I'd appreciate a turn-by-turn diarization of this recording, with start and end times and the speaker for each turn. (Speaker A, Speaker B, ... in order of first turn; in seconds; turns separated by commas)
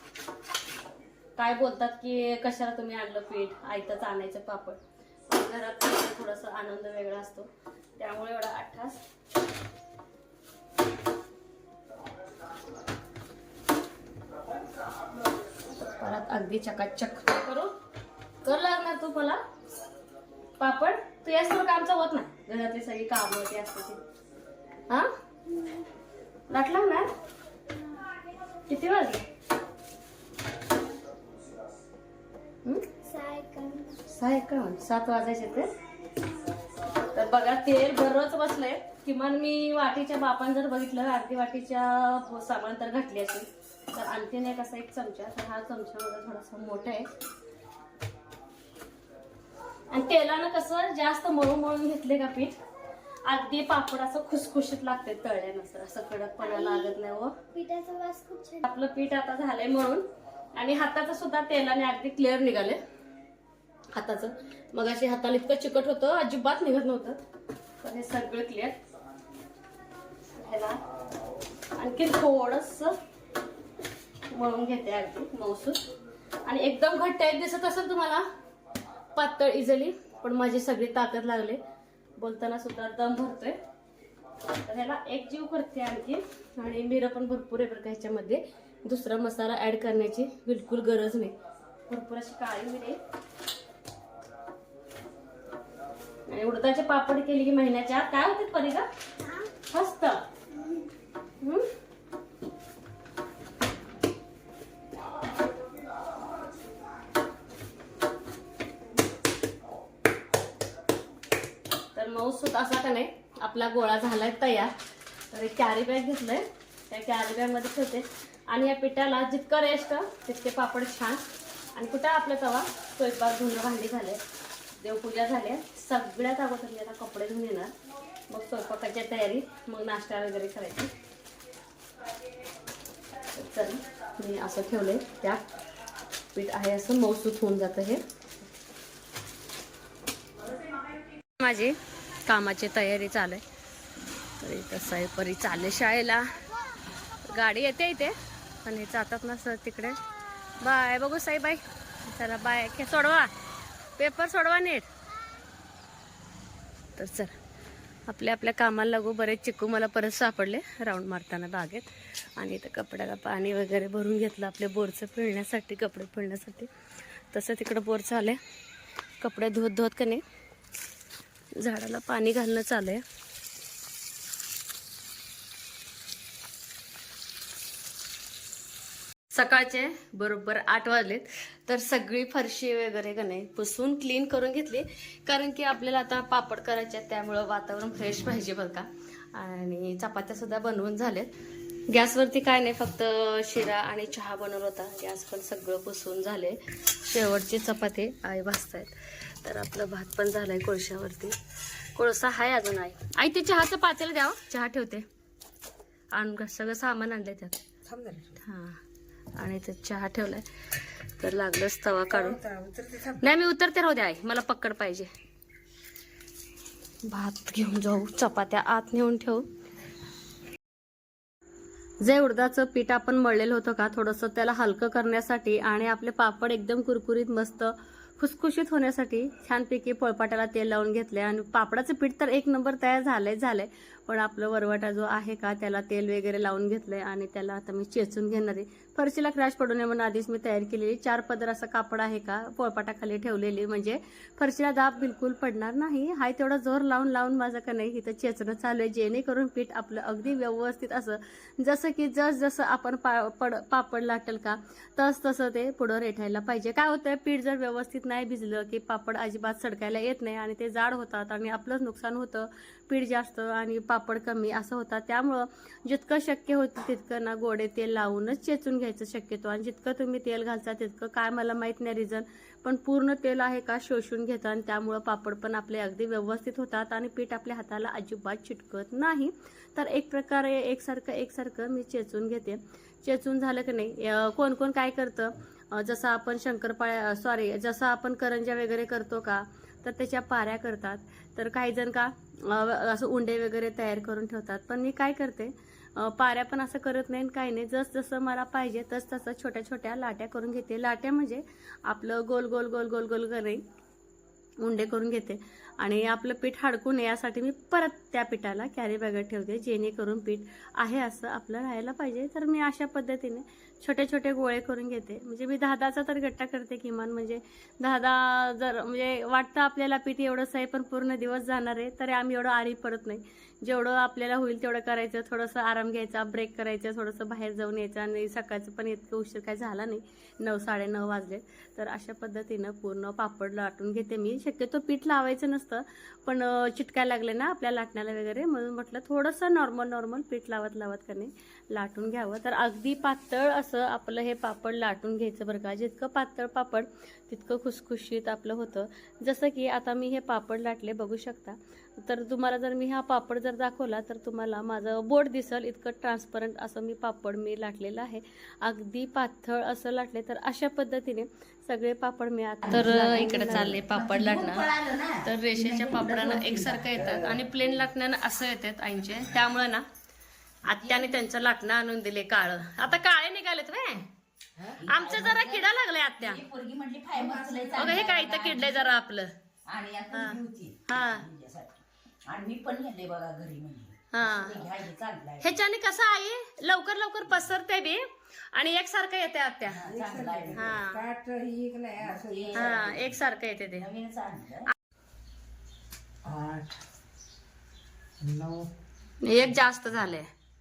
Speaker A: 1.4-9.0, Speaker A: 15.7-17.7, Speaker A: 18.4-19.4, Speaker A: 20.6-24.0, Speaker B: 25.5-25.8, Speaker A: 26.5-27.1, Speaker A: 28.7-29.2, Speaker B: 33.0-34.0, Speaker A: 34.1-35.7, Speaker A: 37.1-47.1, Speaker A: 49.9-52.6, Speaker A: 53.2-57.4, Speaker B: 56.4-56.9, Speaker B: 57.5-58.7, Speaker A: 58.7-62.8, Speaker A: 63.9-67.2, Speaker A: 67.8-68.8, Speaker A: 70.4-70.8, Speaker A: 71.8-73.0, Speaker A: 74.3-75.9, Speaker A: 76.4-78.2, Speaker A: 79.1-81.6, Speaker A: 82.2-83.6, Speaker A: 84.6-91.3, Speaker A: 91.9-93.0, Speaker A: 96.3-98.9, Speaker A: 99.7-100.2, Speaker B: 100.5-100.9, Speaker A: 101.4-101.7, Speaker A: 111.9-114.8, Speaker A: 115.3-124.2, Speaker A: 124.8-127.7, Speaker A: 128.3-130.9, Speaker A: 133.3-135.4, Speaker A: 136.3-138.0, Speaker A: 141.4-143.4, Speaker A: 144.4-146.4, Speaker A: 147.2-150.0, Speaker A: 150.6-153.3, Speaker A: 154.0-154.9, Speaker A: 157.0-157.3, Speaker A: 158.1-166.7, Speaker A: 167.3-168.4, Speaker A: 169.2-170.2, Speaker A: 171.6-173.0, Speaker A: 179.3-191.3, Speaker A: 191.9-201.4, Speaker A: 201.9-205.1, Speaker A: 206.1-207.6, Speaker C: 207.8-208.4, Speaker A: 208.4-208.8, Speaker A: 209.3-210.4, Speaker A: 211.2-212.4, Speaker C: 212.1-213.2, Speaker A: 213.2-215.1, Speaker A: 217.0-219.5, Speaker A: 222.0-303.6, Speaker A: 304.6-364.7, Speaker D: 362.6-367.1, Speaker C: 362.7-363.7, Speaker A: 365.2-369.9, Speaker C: 367.0-367.5, Speaker A: 370.6-374.1, Speaker C: 374.6-374.8, Speaker D: 374.8-375.7, Speaker A: 374.9-376.4, Speaker D: 376.2-378.9, Speaker C: 377.1-378.1, Speaker A: 377.8-379.3, Speaker D: 379.7-381.7, Speaker A: 380.1-381.2, Speaker D: 382.2-385.5, Speaker A: 384.1-384.7, Speaker A: 385.4-389.8, Speaker D: 389.7-390.7, Speaker C: 389.8-393.0, Speaker A: 390.5-391.0, Speaker D: 392.0-393.0, Speaker A: 392.5-393.9, Speaker D: 393.8-394.7, Speaker C: 396.2-396.8, Speaker C: 398.2-398.7, Speaker A: 399.2-400.3